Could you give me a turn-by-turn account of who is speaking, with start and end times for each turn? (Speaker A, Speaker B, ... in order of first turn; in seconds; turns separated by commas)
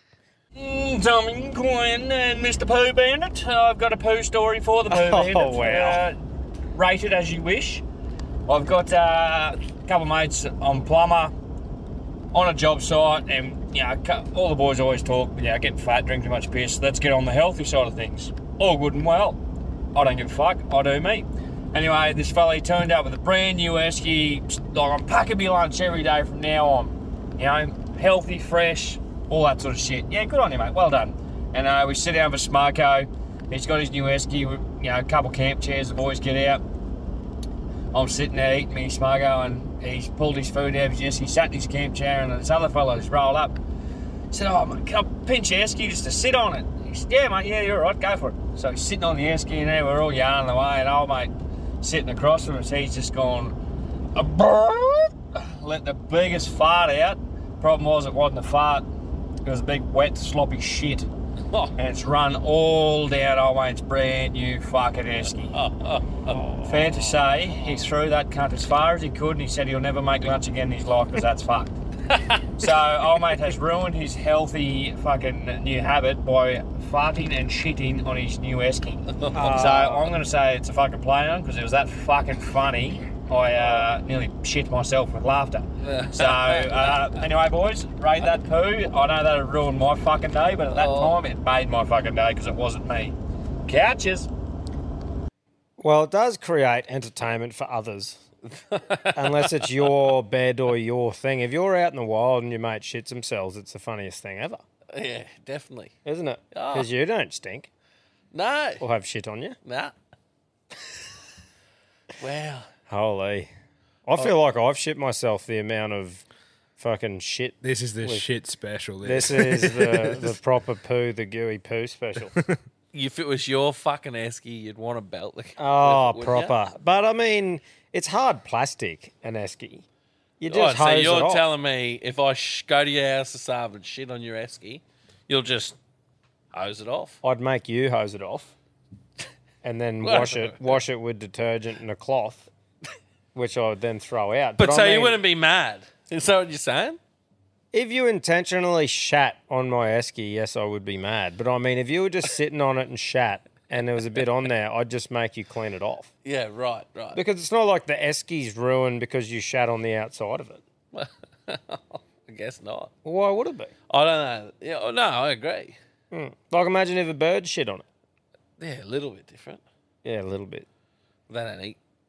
Speaker A: 0.6-6.2, Speaker B: 4.9-6.0, Speaker A: 6.8-7.8, Speaker A: 8.5-11.3, Speaker A: 12.3-19.4, Speaker A: 19.9-36.6, Speaker A: 37.9-43.5, Speaker A: 44.3-53.6, Speaker A: 54.1-58.9, Speaker A: 59.5-61.1, Speaker A: 61.8-65.6, Speaker C: 65.5-66.5, Speaker B: 66.3-67.6, Speaker A: 66.7-71.7, Speaker C: 72.1-72.4, Speaker A: 72.6-93.2, Speaker C: 79.2-79.7, Speaker B: 79.3-80.1, Speaker B: 83.6-83.9, Speaker C: 85.8-87.2, Speaker C: 90.8-91.2, Speaker A: 93.7-94.3, Speaker B: 95.8-98.2, Speaker C: 98.6-99.7, Speaker B: 99.1-104.6, Speaker C: 104.9-105.9, Speaker B: 106.0-107.7, Speaker C: 106.5-106.9, Speaker C: 108.3-108.8, Speaker B: 108.8-109.6, Speaker C: 109.7-109.9, Speaker C: 112.2-112.7, Speaker B: 112.9-113.5, Speaker B: 114.1-116.2, Speaker B: 116.8-118.2, Speaker D: 117.6-120.2, Speaker B: 119.0-122.3, Speaker C: 122.9-126.5, Speaker B: 125.6-129.8, Speaker B: 130.4-131.4, Speaker C: 130.5-135.8, Speaker C: 136.5-137.2, Speaker B: 137.2-138.5, Speaker B: 139.6-142.5, Speaker C: 140.0-140.8, Speaker B: 143.3-145.2, Speaker C: 144.6-147.0, Speaker B: 147.7-156.1, Speaker C: 156.2-157.2, Speaker B: 157.1-160.6, Speaker C: 160.9-162.9, Speaker B: 163.1-163.7, Speaker C: 163.9-165.8, Speaker B: 166.1-167.9, Speaker C: 168.6-169.6, Speaker B: 170.0-170.7, Speaker C: 171.3-171.8